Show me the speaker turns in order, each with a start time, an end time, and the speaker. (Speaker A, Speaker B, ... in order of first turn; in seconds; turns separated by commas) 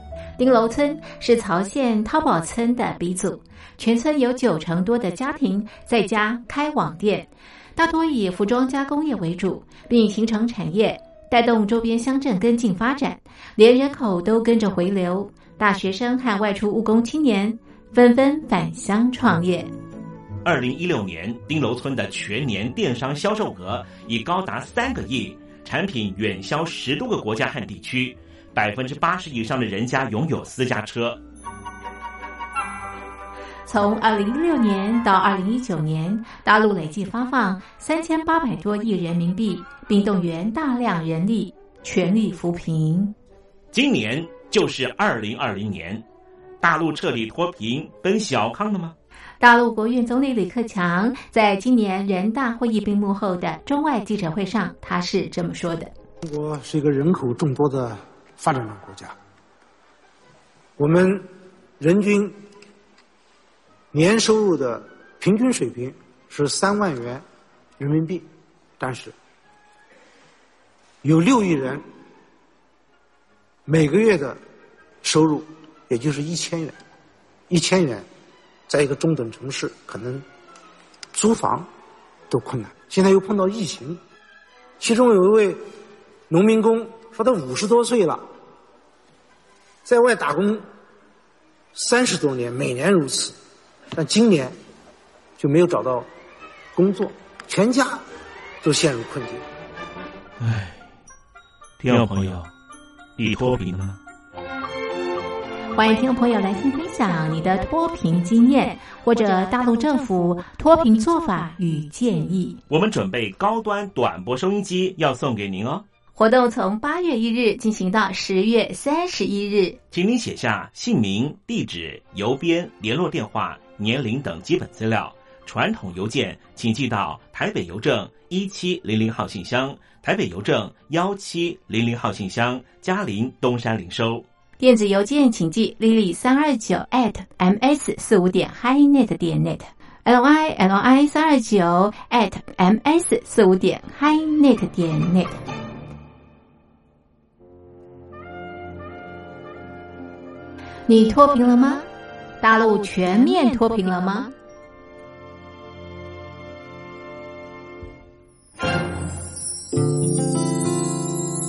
Speaker A: 0.4-19.7, Speaker B: 20.4-31.2, Speaker A: 33.7-43.1, Speaker B: 43.7-46.0, Speaker B: 46.6-49.0, Speaker A: 49.4-55.9, Speaker C: 56.2-59.1, Speaker C: 60.8-61.3, Speaker C: 61.8-62.4, Speaker C: 63.9-67.2, Speaker C: 67.8-68.3, Speaker C: 68.8-69.1, Speaker C: 71.0-71.8, Speaker C: 73.7-74.4, Speaker C: 75.0-76.8, Speaker C: 77.5-78.1, Speaker C: 78.7-80.2, Speaker C: 81.1-81.7, Speaker C: 82.3-84.0, Speaker C: 84.8-85.6, Speaker C: 86.3-88.2, Speaker C: 89.8-90.6, Speaker C: 91.7-93.3, Speaker C: 94.0-94.5, Speaker C: 95.4-96.1, Speaker C: 96.7-98.0, Speaker C: 98.6-99.4, Speaker B: 100.4-100.8, Speaker B: 101.8-102.5, Speaker B: 103.2-104.0, Speaker A: 105.8-112.6, Speaker B: 112.7-115.8, Speaker A: 116.2-119.8, Speaker B: 119.9-134.2, Speaker A: 134.6-145.4, Speaker A: 150.9-151.9, Speaker A: 152.4-154.3